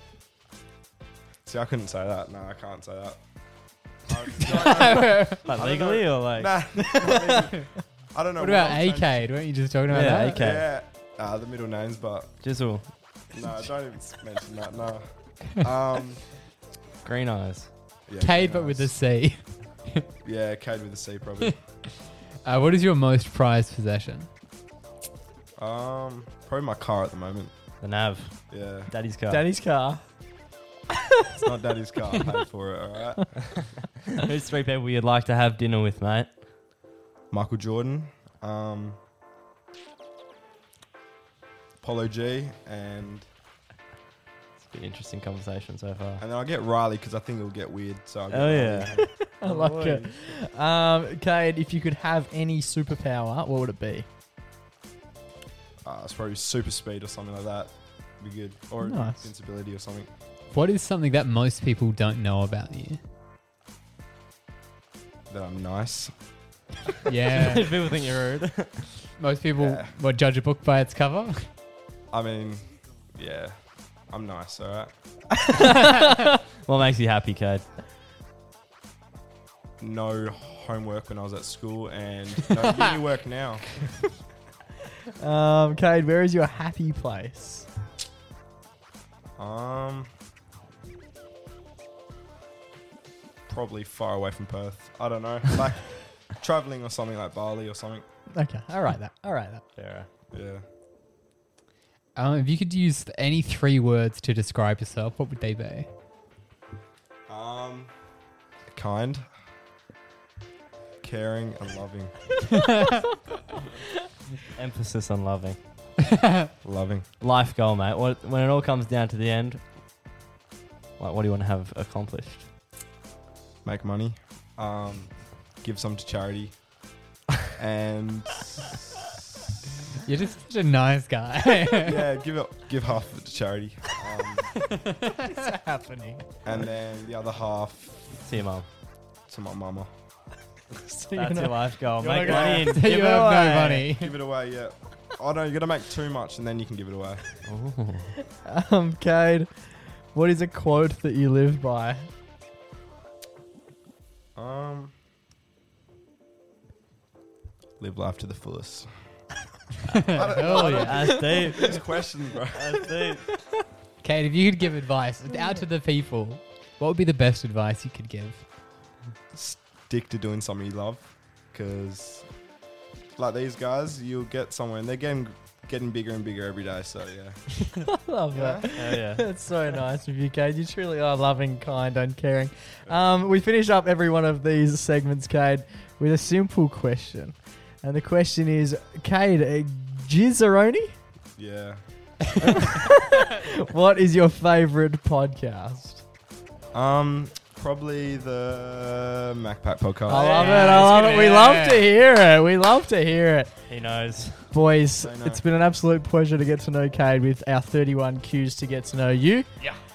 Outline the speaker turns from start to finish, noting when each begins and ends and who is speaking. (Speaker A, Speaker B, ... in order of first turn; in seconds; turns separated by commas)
Speaker A: 1.4-3.2, Speaker A: 4.1-9.4, Speaker B: 4.5-5.4, Speaker C: 5.4-6.5, Speaker D: 6.8-7.3, Speaker B: 8.4-10.5, Speaker C: 9.9-10.7, Speaker A: 10.3-12.3, Speaker C: 12.4-12.8, Speaker A: 13.3-16.2, Speaker C: 17.0-17.7, Speaker A: 18.1-18.9, Speaker B: 18.2-20.0, Speaker A: 20.2-21.6, Speaker B: 22.4-24.3, Speaker A: 25.6-27.5, Speaker C: 27.8-29.4, Speaker A: 28.5-28.9, Speaker D: 29.3-30.0, Speaker A: 31.4-33.3, Speaker C: 34.1-36.3, Speaker A: 37.3-39.0, Speaker A: 41.8-43.2, Speaker C: 44.6-46.2, Speaker A: 46.2-49.1, Speaker C: 48.3-50.1, Speaker D: 49.3-54.0, Speaker A: 55.8-60.1, Speaker D: 58.8-59.3, Speaker B: 60.5-63.0, Speaker A: 65.3-66.1, Speaker B: 67.0-67.7, Speaker C: 67.3-68.9, Speaker B: 69.2-71.4, Speaker A: 69.6-69.9, Speaker A: 72.1-73.5, Speaker A: 74.1-74.9, Speaker C: 76.6-77.6, Speaker A: 79.8-83.8, Speaker D: 85.2-87.7, Speaker A: 89.4-90.1, Speaker A: 93.5-98.0, Speaker D: 98.3-99.6, Speaker C: 99.8-100.1, Speaker A: 100.3-100.6, Speaker B: 102.2-105.9, Speaker A: 107.3-107.9, Speaker A: 108.7-109.2, Speaker A: 111.0-112.1, Speaker C: 114.5-115.6, Speaker A: 116.6-117.0, Speaker C: 117.2-119.6, Speaker C: 121.0-122.5, Speaker A: 123.6-126.6, Speaker A: 127.5-128.9, Speaker B: 130.0-132.0, Speaker A: 131.8-134.6, Speaker B: 134.6-135.2, Speaker D: 135.3-136.2, Speaker A: 136.4-138.2, Speaker C: 138.2-138.7, Speaker A: 139.3-139.9, Speaker D: 140.7-142.9, Speaker C: 141.1-143.9, Speaker B: 142.2-144.1, Speaker A: 144.0-147.2, Speaker C: 147.4-148.1, Speaker D: 148.4-152.1, Speaker A: 154.3-154.9, Speaker A: 157.8-158.9, Speaker B: 159.9-161.1, Speaker A: 160.1-162.8, Speaker C: 160.5-161.7, Speaker D: 161.1-161.4, Speaker C: 162.5-163.2, Speaker B: 164.0-168.4, Speaker D: 165.3-165.6, Speaker A: 169.3-172.3, Speaker A: 173.2-177.5, Speaker D: 177.8-190.9, Speaker A: 178.3-178.6, Speaker C: 178.7-179.2, Speaker A: 191.4-191.8, Speaker D: 192.4-196.0, Speaker A: 196.7-200.4, Speaker D: 200.1-203.5, Speaker B: 200.1-201.9, Speaker C: 200.5-200.9, Speaker C: 203.7-204.4, Speaker D: 204.5-209.5, Speaker A: 205.0-205.4